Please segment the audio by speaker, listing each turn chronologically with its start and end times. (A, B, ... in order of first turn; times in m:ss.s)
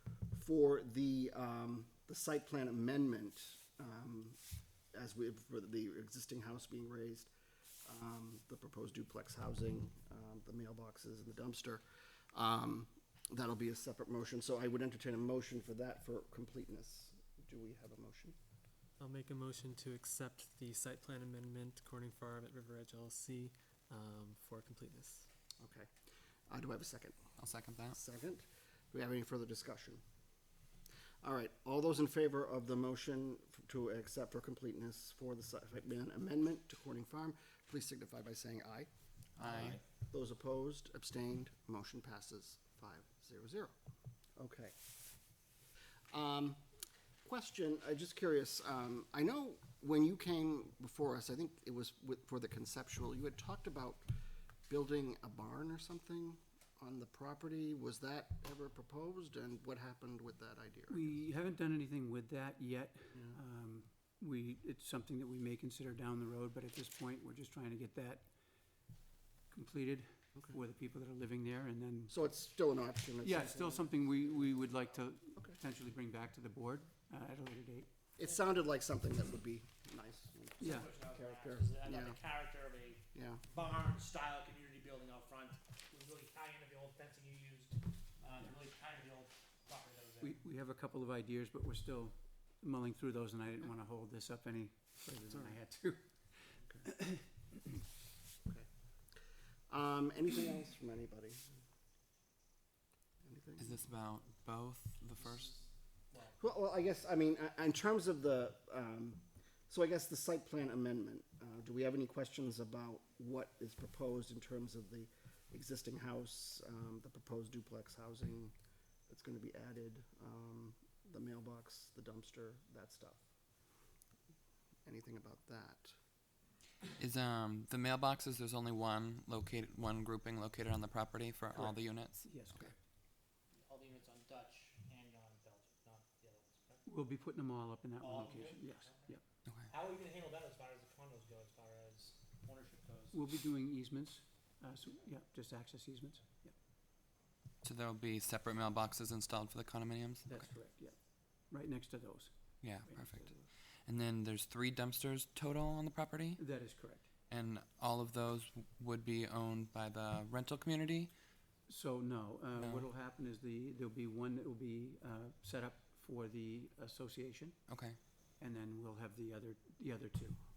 0:00.3-0:04.4 A
0:04.9-0:07.3 A
0:07.8-0:11.8 A
0:12.3-0:18.4 A
0:19.0-0:25.3 B
0:25.6-0:25.9 A
0:26.5-0:27.3 A
0:27.4-0:28.0 C
0:27.9-0:30.0 A
0:31.2-0:43.8 A
0:39.4-0:39.8 C
0:44.4-0:44.8 A
0:46.1-0:46.6 A
0:47.2-0:54.0 A
0:54.7-1:01.2 A
1:00.9-1:08.3 D
1:09.5-1:12.1 D
1:12.1-1:14.6 A
1:13.2-1:17.9 D
1:18.2-1:22.3 A
1:20.6-1:20.9 D
1:20.6-1:30.4 E
1:23.1-1:23.4 A
1:30.2-1:36.3 D
1:36.8-1:37.3 D
1:39.7-1:41.5 A
1:43.2-1:43.7 A
1:43.6-1:45.6 C
1:45.2-1:46.4 E
1:46.4-1:58.5 A
1:59.1-2:03.2 A
2:04.9-2:06.0 A
2:07.0-2:12.7 C
2:11.5-2:12.8 D
2:13.6-2:16.8 E
2:16.8-2:19.2 D
2:18.0-2:19.2 E
2:19.7-2:23.2 E
2:23.1-2:26.6 D
2:27.6-2:30.5 C
2:30.3-2:33.4 D
2:32.6-2:36.4 C
2:36.4-2:37.1 D
2:37.3-2:41.1 C
2:41.7-2:47.6 D
2:42.6-2:42.9 C
2:47.7-2:48.0 C
2:48.4-2:50.4 D